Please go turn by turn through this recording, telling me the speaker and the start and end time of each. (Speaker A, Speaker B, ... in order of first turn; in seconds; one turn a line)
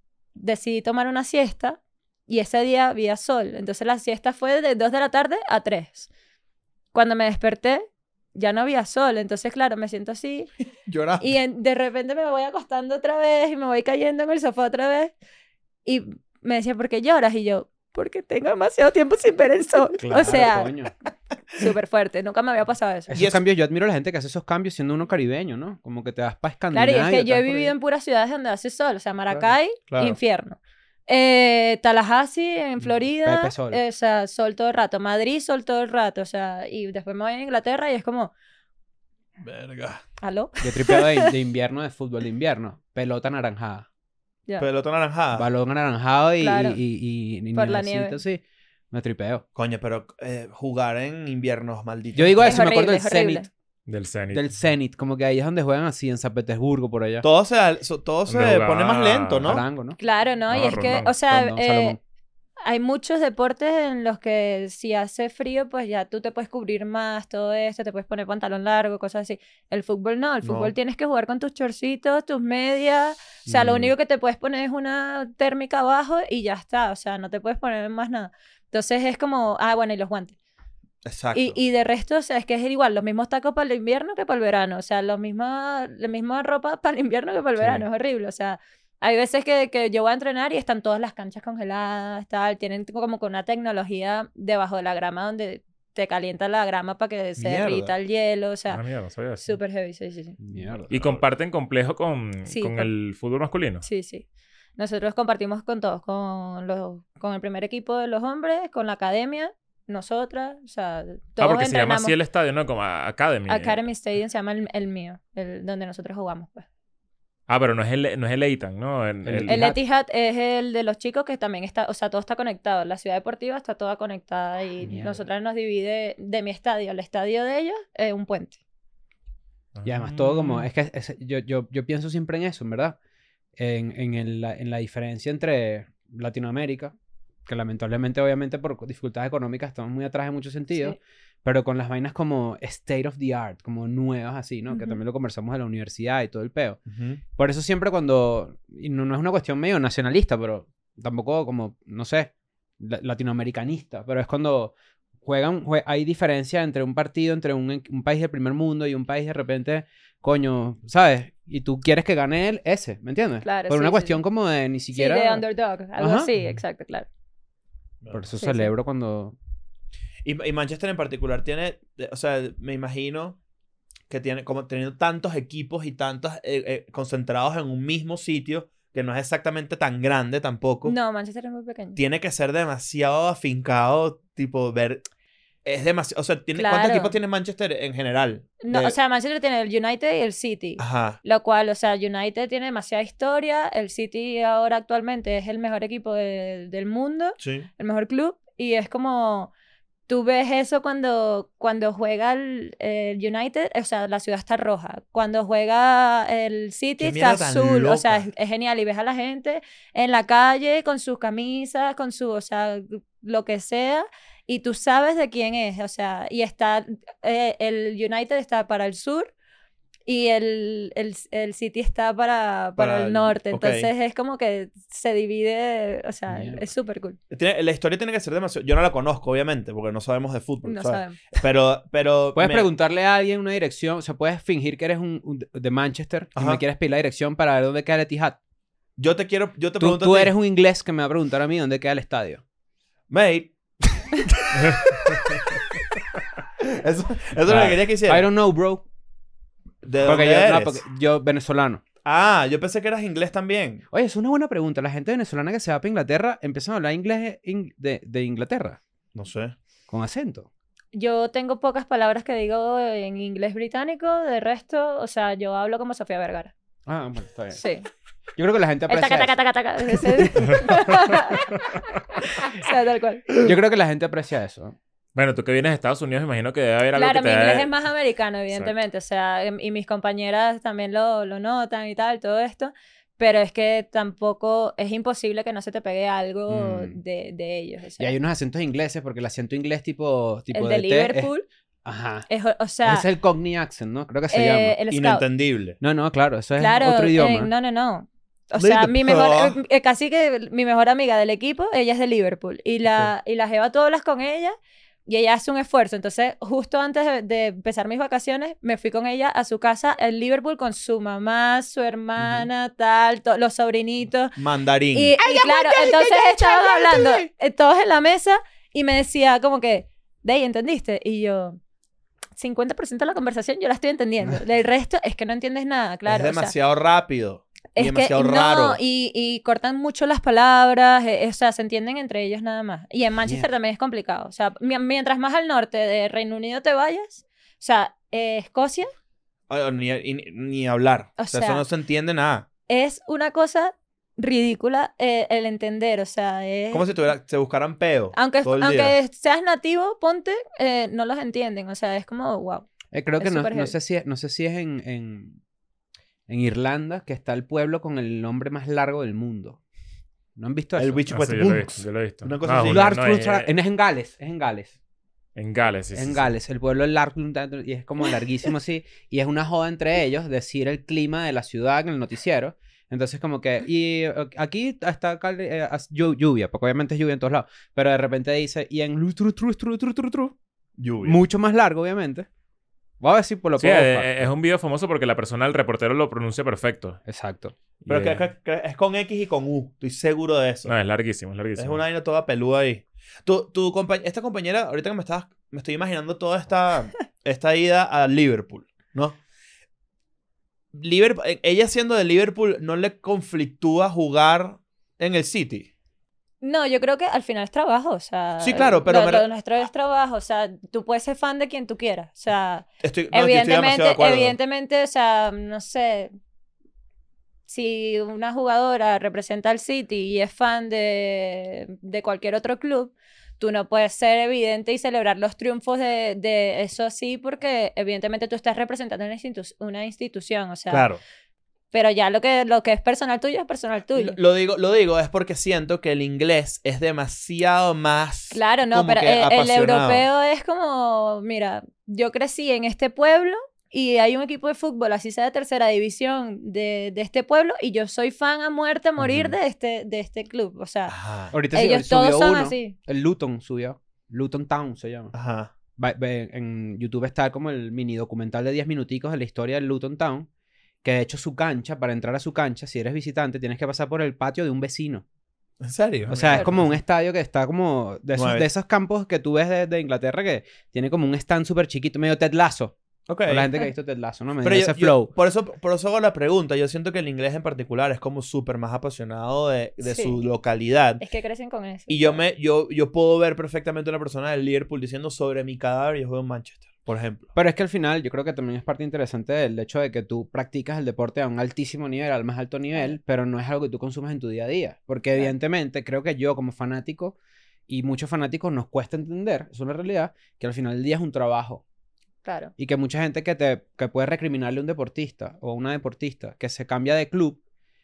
Speaker A: 0.3-6.1
Speaker A: 6.9-10.5
Speaker B: 10.8-11.3
Speaker A: 11.2-15.1
Speaker A: 15.8-20.7
Speaker C: 20.0-20.9
Speaker A: 21.5-23.1
Speaker C: 23.1-27.7
Speaker B: 23.1-23.4
Speaker A: 26.7-38.3
Speaker B: 29.9-30.2
Speaker C: 32.8-33.8
Speaker B: 39.4-40.0
Speaker A: 40.2-41.3
Speaker C: 40.6-43.9
Speaker B: 44.6-45.5
Speaker C: 45.3-49.4
Speaker A: 46.4-46.8
Speaker A: 47.5-48.2
Speaker B: 49.5-52.6
Speaker C: 52.1-53.5
Speaker A: 52.4-53.5
Speaker D: 53.9-54.5
Speaker C: 54.3-57.2
Speaker B: 57.2-59.6
Speaker D: 58.3-59.6
Speaker C: 59.4-60.0
Speaker A: 60.0-62.0
Speaker D: 60.5-61.1
Speaker C: 60.5-62.0
Speaker A: 62.6-80.3
Speaker B: 70.4-70.7
Speaker C: 73.5-73.9
Speaker B: 81.0-81.6
Speaker A: 81.3-98.8
Speaker B: 97.4-97.9
Speaker D: 98.7-99.5
Speaker A: 99.4-100.4
Speaker C: 100.4-101.1
Speaker D: 100.9-103.8
Speaker A: 102.5-102.9
Speaker A: 103.8-104.2
Speaker A: 104.8-112.2
Speaker D: 111.4-113.8
Speaker A: 113.5-116.7
Speaker D: 117.5-119.6
Speaker C: 119.2-119.8
Speaker A: 119.5-128.6
Speaker C: 124.8-125.2
Speaker D: 129.7-130.7
Speaker C: 129.8-133.0
Speaker C: 133.6-136.9
Speaker C: 137.4-146.8
Speaker A: 140.7-141.0
Speaker A: 144.7-145.0
Speaker B: 146.9-147.2
Speaker C: 147.3-165.4
Speaker A: 163.4-164.2
Speaker A: 164.9-167.1
Speaker C: 166.0-166.3
Speaker C: 168.1-169.3
Speaker A: 168.3-168.7
Speaker B: 170.2-173.4
Speaker B: 174.1-180.9
Speaker A: 180.8-182.0
Speaker B: 181.9-185.0
Speaker B: 185.6-188.9
Speaker A: 186.5-187.2
Speaker A: 188.6-199.5
Speaker B: 190.8-191.2
Speaker B: 197.4-197.7
Speaker A: 200.1-219.3
Speaker B: 207.0-208.2
Speaker A: 220.1-227.2
Speaker B: 222.8-223.9
Speaker C: 226.3-226.7
Speaker B: 227.3-232.7
Speaker A: 230.6-231.2
Speaker C: 232.3-238.4
Speaker B: 236.3-236.6
Speaker B: 239.0-240.3
Speaker C: 239.8-242.4
Speaker B: 243.1-245.6
Speaker B: 246.6-248.2
Speaker C: 247.5-248.8
Speaker B: 249.8-250.8
Speaker C: 250.0-251.8
Speaker B: 252.0-253.8
Speaker C: 253.9-258.8
Speaker B: 259.1-259.5
Speaker C: 259.9-260.5
Speaker A: 260.9-266.5
Speaker C: 266.9-267.6
Speaker A: 267.5-267.9
Speaker C: 268.4-271.2
Speaker A: 268.9-273.3
Speaker C: 273.4-274.8
Speaker D: 275.1-277.7
Speaker A: 276.9-288.1
Speaker C: 286.5-287.0
Speaker C: 288.0-291.3
Speaker A: 290.5-291.4
Speaker C: 291.8-292.3
Speaker A: 292.3-293.1
Speaker C: 292.8-294.8
Speaker A: 294.3-295.2
Speaker B: 294.9-295.8
Speaker C: 295.8-297.5
Speaker A: 296.6-304.5
Speaker B: 298.6-299.6
Speaker A: 305.1-314.4
Speaker C: 312.2-312.4
Speaker B: 314.4-315.2
Speaker A: 314.9-321.6
Speaker C: 315.2-317.2
Speaker A: 322.4-326.5
Speaker B: 326.1-328.8
Speaker A: 327.7-338.9
Speaker B: 339.5-342.5
Speaker A: 341.2-341.6
Speaker A: 342.7-346.9
Speaker B: 346.7-348.9
Speaker A: 348.1-352.7
Speaker C: 352.9-355.4
Speaker A: 353.2-353.7
Speaker C: 356.3-359.6
Speaker C: 360.4-361.0
Speaker B: 360.8-362.9
Speaker D: 361.1-363.5
Speaker C: 362.6-364.7
Speaker D: 365.4-366.3
Speaker C: 365.9-380.3
Speaker B: 380.8-381.2
Speaker C: 381.0-382.3
Speaker C: 383.0-384.3
Speaker D: 383.6-387.0
Speaker C: 387.1-387.5
Speaker D: 387.8-388.2
Speaker B: 387.9-390.7
Speaker D: 390.6-391.8
Speaker B: 391.6-399.2
Speaker B: 400.7-405.7
Speaker A: 406.4-416.1
Speaker B: 408.4-409.3
Speaker B: 412.8-414.4
Speaker A: 417.5-430.9
Speaker B: 430.7-431.0
Speaker A: 431.7-434.2
Speaker B: 433.9-440.1
Speaker A: 438.3-450.9
Speaker B: 450.9-451.3
Speaker C: 451.3-455.1
Speaker A: 451.5-452.8
Speaker B: 455.1-455.5
Speaker C: 455.8-460.3
Speaker C: 460.8-465.0
Speaker B: 465.6-466.7
Speaker C: 466.1-475.1
Speaker B: 468.1-468.4
Speaker B: 473.1-473.5
Speaker B: 474.4-481.0
Speaker A: 479.8-480.2
Speaker A: 481.0-482.2
Speaker B: 481.9-487.3
Speaker C: 487.3-497.1
Speaker C: 497.7-501.6
Speaker A: 502.2-502.5
Speaker C: 502.6-507.4